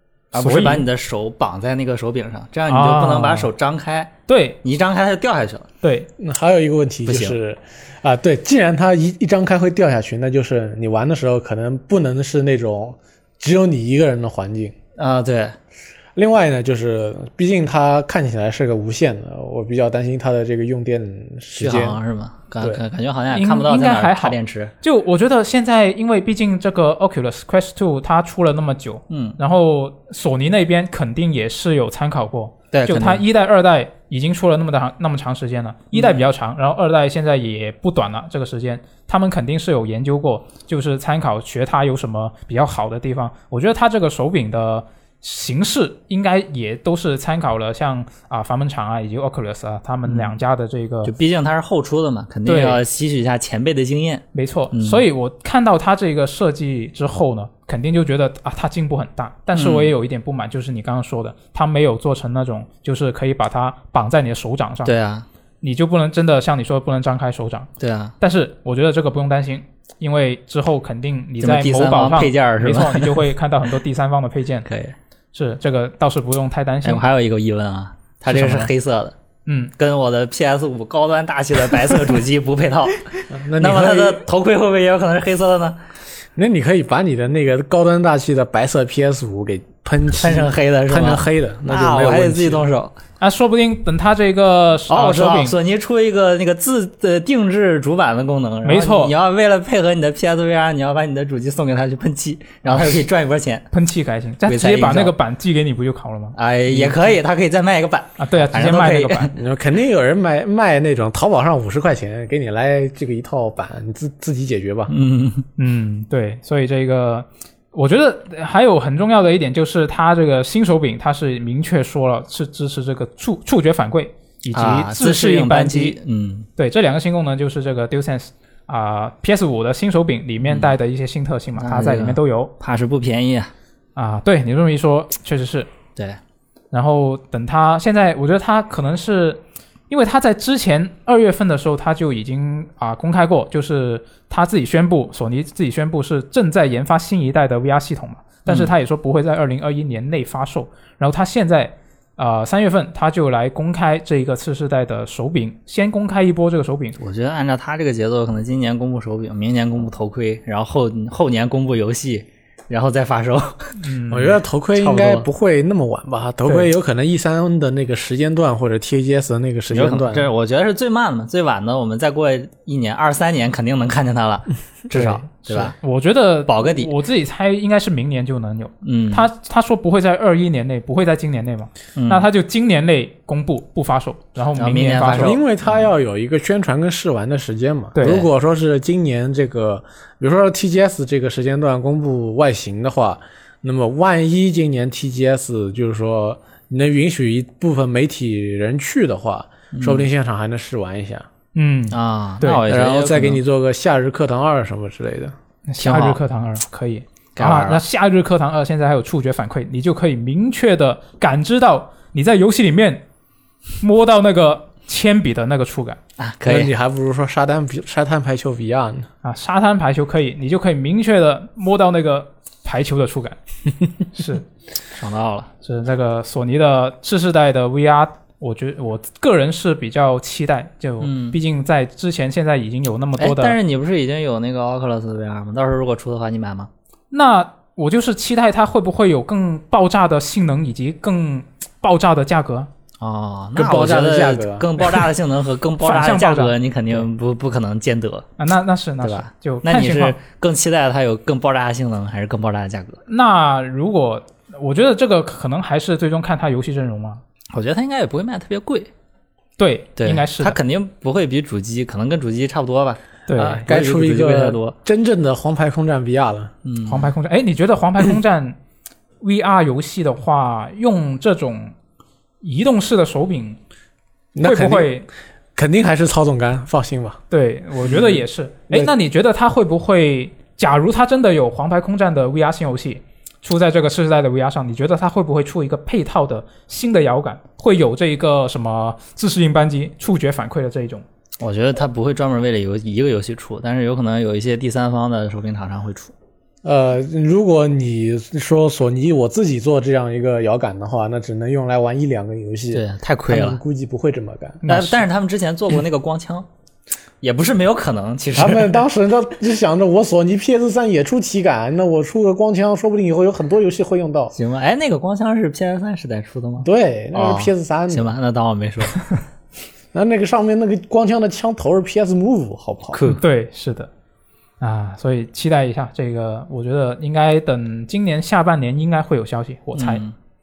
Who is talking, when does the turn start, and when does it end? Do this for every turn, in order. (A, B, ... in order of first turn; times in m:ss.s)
0:00.3-0:05.7 A
0:00.3-0:00.9 B
0:02.7-0:03.5 B
0:04.3-0:04.6 B
0:05.8-0:06.1 B
0:06.2-0:14.7 C
0:07.0-0:07.4 A
0:15.0-0:15.6 A
0:16.2-0:22.0 C
0:21.6-0:24.7 A
0:23.3-0:51.1 B
0:29.1-0:29.4 A
0:32.7-0:33.2 A
0:35.9-0:36.2 A
0:50.0-0:50.4 A
0:51.0-0:55.0 A
0:52.4-0:52.8 B
0:54.3-1:04.9 B
0:59.5-0:59.9 A
1:04.8-1:05.2 A
1:05.6-1:14.7 B
1:07.8-1:08.1 A
1:11.4-1:13.2 A
1:14.6-1:14.9 A
1:15.3-1:17.0 B
1:16.8-1:19.1 A
1:18.3-1:18.7 B
1:19.4-1:19.7 B
1:19.8-1:25.8 A
1:23.3-1:24.2 C
1:26.4-1:32.6 C
1:30.1-1:32.9 A
1:33.2-1:35.6 B
1:34.9-1:43.7 A
1:38.6-1:39.1 B
1:42.7-1:43.0 B
1:43.7-1:46.3 B
1:44.4-1:45.1 A
1:46.4-1:49.4 A
1:48.2-1:49.3 B
1:49.4-1:54.9 C
1:54.9-1:55.4 A
1:55.6-2:06.0 B
2:04.5-2:06.5 A
2:06.6-2:12.5 B
2:10.4-2:10.7 A
2:11.6-2:13.5 A
2:14.0-2:15.7 B
2:16.7-2:37.0 B
2:28.5-2:28.7 A
2:37.0-2:43.8 A
2:43.8-2:44.4 B
2:44.1-2:50.3 C
2:44.7-2:45.3 A
2:49.7-2:55.7 A
2:54.9-3:05.4 B
2:56.5-2:56.9 A
2:58.8-2:59.3 A
3:02.0-3:02.2 A
3:04.6-3:05.4 A
3:05.1-3:21.3 C
3:07.9-3:08.2 B
3:19.7-3:20.1 A
3:21.5-3:22.6 B
3:21.9-3:23.4 A
3:22.7-3:25.3 C
3:25.7-3:33.0 B
3:25.8-3:26.2 A
3:27.4-3:27.8 A
3:33.8-3:36.0 B
3:36.2-3:36.7 A
3:36.4-3:39.1 C
3:39.2-3:43.4 B
3:44.1-3:44.4 B
3:44.9-3:45.5 A
3:45.6-3:53.6 B
3:51.0-3:51.4 A
3:53.2-3:56.7 A
3:57.1-4:02.7 B
4:03.0-4:08.3 A
4:03.5-4:04.8 C
4:05.8-4:06.5 B
4:08.4-4:10.2 B
4:09.0-4:13.0 A
4:13.1-4:17.2 B
4:17.5-4:18.9 A
4:19.6-4:20.6 B
4:20.0-4:24.7 A
4:23.3-4:23.6 B
4:23.4-4:26.5 C
4:26.6-4:27.1 A
4:26.8-4:28.6 B
4:29.2-4:31.7 B
4:32.4-4:33.6 B
4:34.3-4:35.0 C
4:34.4-4:35.1 B
4:35.6-4:37.2 C
4:37.3-4:51.0 B
4:51.4-4:56.1 A
4:56.6-5:04.6 C
5:02.7-5:03.6 A
5:04.6-5:05.1 B
5:04.7-5:06.4 A
5:07.2-5:08.8 A
5:08.3-5:14.3 C
5:14.3-5:19.0 A
5:16.6-5:18.1 C
5:19.9-5:23.0 C
5:22.9-5:23.2 A
5:23.1-5:23.9 B
5:24.6-5:30.0 B
5:29.8-5:30.1 A